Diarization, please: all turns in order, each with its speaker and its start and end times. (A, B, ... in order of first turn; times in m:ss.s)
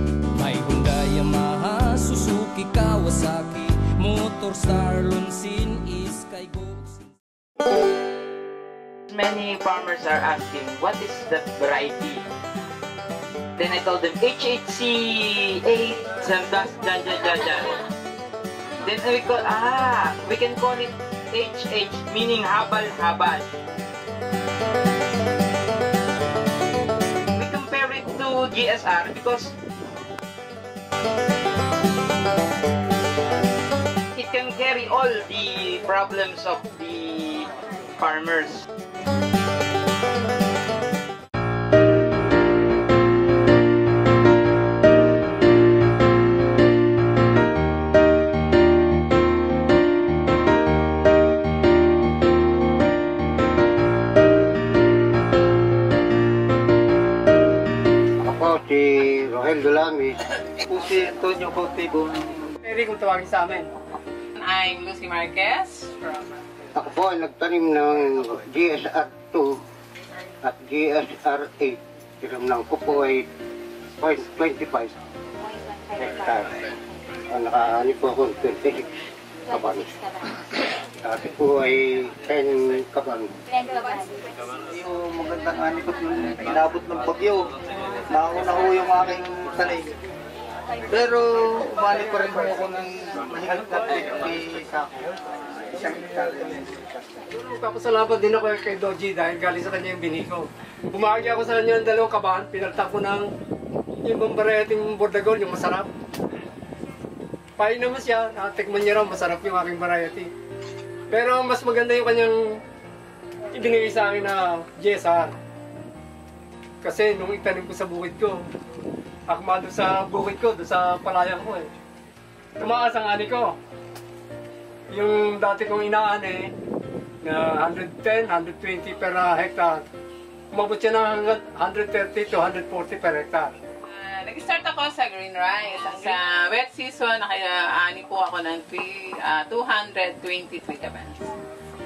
0:00.4-0:07.1 A
0:09.1-0:12.2 B
0:13.6-0:17.7 B
0:18.8-0:23.6 B
0:27.3-0:29.5 B
0:34.1-0:38.6 B
0:58.2-1:00.4 C
1:00.7-1:02.4 D
1:02.6-1:03.7 E
1:04.4-1:05.9 F
1:06.8-1:09.5 C
1:10.4-1:13.3 C
1:14.0-1:14.9 C
1:16.0-1:16.7 C
1:17.3-1:18.8 C
1:19.5-1:19.9 C
1:21.0-1:23.3 C
1:24.7-1:27.5 D
1:28.1-1:29.9 D
1:30.9-1:35.1 D
1:35.7-1:37.0 D
1:37.4-1:43.3 E
1:44.0-1:45.9 E
1:47.6-1:50.3 E
1:51.1-1:52.4 E
1:53.5-1:55.3 E
1:56.8-1:58.4 E
1:59.3-2:01.7 E
2:02.6-2:03.6 E
2:04.9-2:06.5 E
2:07.2-2:09.8 E
2:10.5-2:13.5 E
2:13.8-2:21.3 F